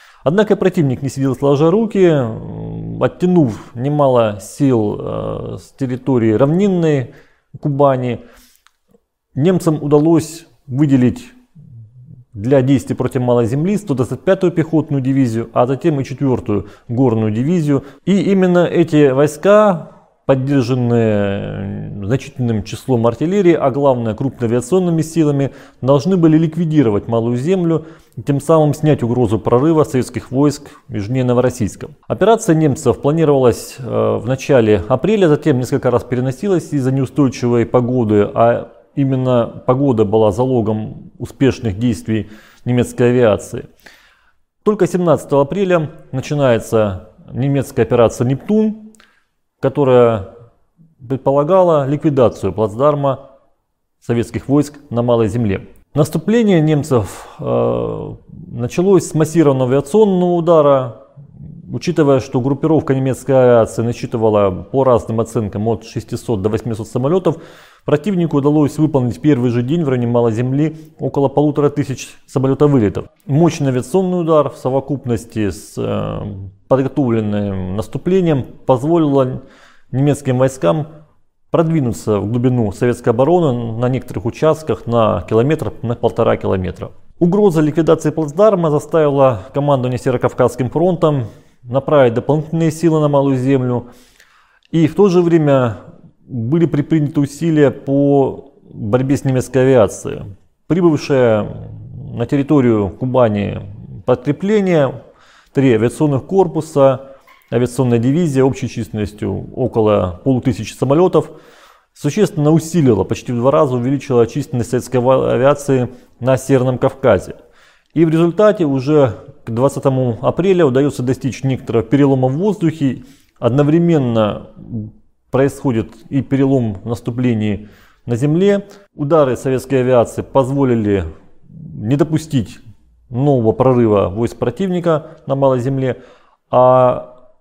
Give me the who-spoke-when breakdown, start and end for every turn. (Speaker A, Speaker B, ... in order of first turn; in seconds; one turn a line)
Speaker A: 0.2-8.2
Speaker A: 9.3-11.3
Speaker A: 12.3-43.7
Speaker A: 44.6-48.9
Speaker A: 49.6-50.3
Speaker A: 51.0-53.2
Speaker A: 54.0-61.0
Speaker A: 61.6-80.9
Speaker A: 81.5-93.9
Speaker A: 94.7-105.0
Speaker A: 105.5-111.3
Speaker A: 111.9-117.4
Speaker A: 117.9-136.0
Speaker A: 136.5-137.1